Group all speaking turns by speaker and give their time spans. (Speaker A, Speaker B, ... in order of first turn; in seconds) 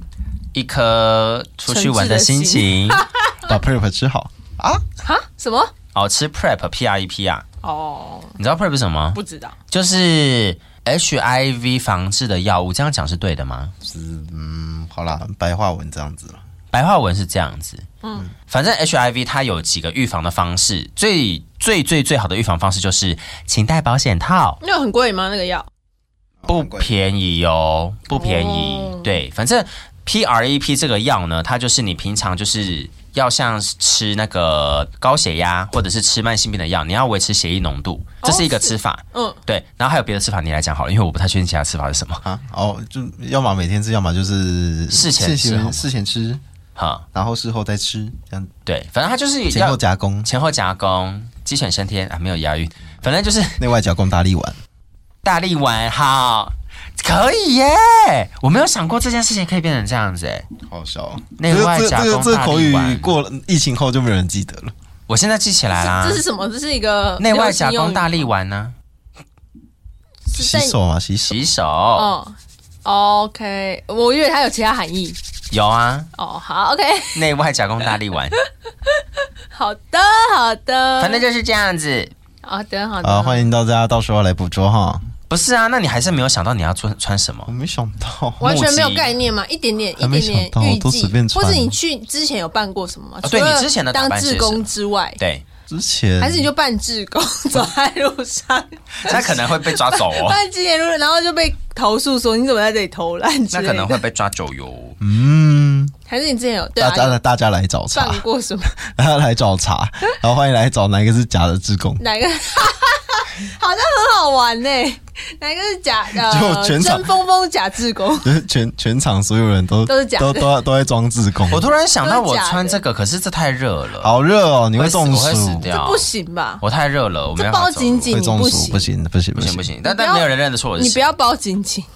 Speaker A: 0.5-3.0, 5.9-7.5, 8.4-9.2, 9.7-13.7, 16.7-17.8, 18.5-24.6, 26.5-42.2, 44.9-45.9, 46.8-47.0, 48.7-53.6, 55.2-60.5, 61.4-63.1, 65.1-66.2, 67.2-68.7, 71.3-72.1, 75.5-76.1, 77.1-78.4, 81.0-82.1, 85.3-87.5, 88.4-89.1, 93.2-94.7, 95.2-95.4, 99.0-100.4, 103.5-105.0, 121.5-124.1, 124.8-126.1, 126.6-128.1, 129.4-131.1
Speaker B: 1.7-3.5, 5.0-5.7, 7.6-8.4, 9.2-9.6, 24.6-25.7, 28.2-29.1, 38.2-39.4, 65.8-68.3, 70.3-70.8, 72.0-75.2, 76.2-77.2, 79.5-81.2, 82.4-83.5, 88.4-95.2, 96.2-104.0, 106.1-107.2, 107.9-108.8, 112.0-118.3, 119.9-120.5, 122.0-122.8, 125.7-126.6, 127.4-128.9, 129.8-130.3, 130.8-131.9
Speaker C: 3.4-4.8, 13.8-16.4, 26.4-26.9, 42.2-46.4, 47.1-48.5, 49.5-50.3, 53.6-54.6, 60.7-64.7, 70.3-71.4, 83.0-85.1, 87.5-88.5, 90.0-91.7, 95.7-96.5, 105.0-105.9, 106.8-108.2, 108.8-112.0, 116.2-117.1, 118.2-121.7, 124.0-125.7, 128.1-129.7